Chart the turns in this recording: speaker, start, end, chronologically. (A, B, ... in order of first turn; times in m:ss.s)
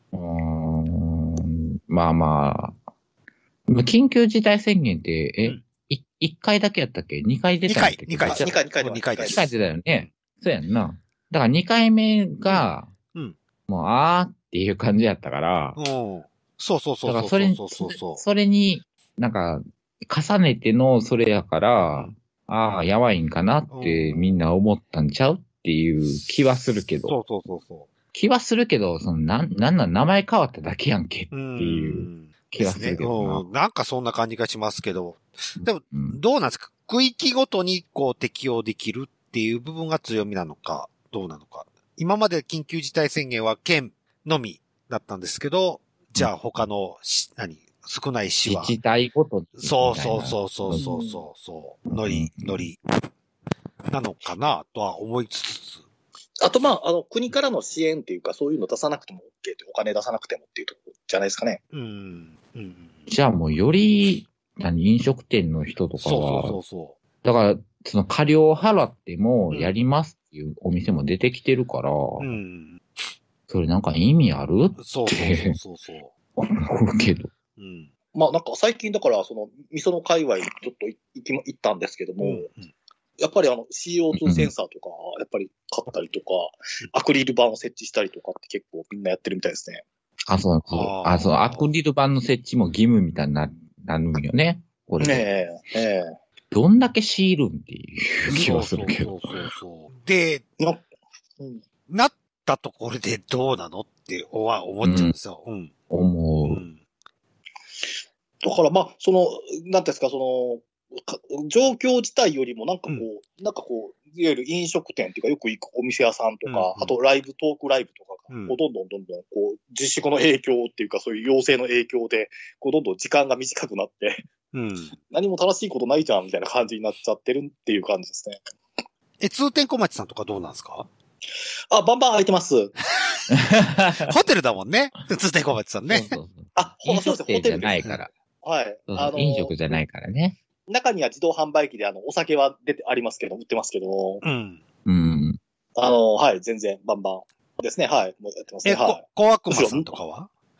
0:00.1-0:02.8 A
0:03.7-0:08.6 A
0:07.7-0:09.5 B
0:08.2-0:09.5 C
0:09.2-0:12.9 A
0:12.4-0:13.4 B
0:13.7-0:15.8 A
0:15.8-0:18.2 B
0:17.0-0:27.2 A
0:23.7-0:24.5 B
0:27.0-0:27.9 B
0:28.1-0:33.4 A
0:31.3-0:48.8 B
0:35.6-0:36.2 A
0:48.4-0:50.8 A
0:49.6-0:52.8 B
0:50.7-0:51.2 C
0:52.0-0:52.7 A
0:53.9-0:55.8 B
0:56.4-1:01.6 C
1:01.7-1:02.9 B
1:03.1-1:06.6 A
1:06.0-1:07.0 B
1:07.2-1:12.4 A
1:09.5-1:09.8 B
1:12.2-1:12.8 B
1:13.5-1:15.6 A
1:14.8-1:16.1 B
1:16.4-1:17.3 A
1:17.6-1:17.9 B
1:18.1-1:22.5 C
1:22.2-1:22.7 B
1:23.2-1:29.8 C
1:24.1-1:24.5 A
1:30.3-1:35.3 A
1:30.7-1:31.6 B
1:35.0-1:36.2 C
1:36.5-1:39.4 A
1:38.3-1:40.4 B
1:40.6-1:40.9 C
1:41.9-1:45.7 B
1:44.8-1:45.1 A
1:45.9-1:46.6 A
1:46.4-1:46.8 B
1:47.8-2:04.3 C
1:56.4-1:56.9 B
1:58.3-1:58.6 B
2:04.5-2:04.9 B
2:05.1-2:08.4 C
2:09.2-2:10.9 B
2:11.7-2:12.7 C
2:13.3-2:14.1 A
2:14.0-2:16.2 B
2:15.8-2:18.1 A
2:16.6-2:17.9 C
2:18.4-2:19.8 C
2:18.9-2:20.4 A
2:20.7-2:24.2 C
2:24.2-2:24.6 B
2:24.8-2:25.4 A
2:25.7-2:29.9 C
2:28.6-2:30.3 B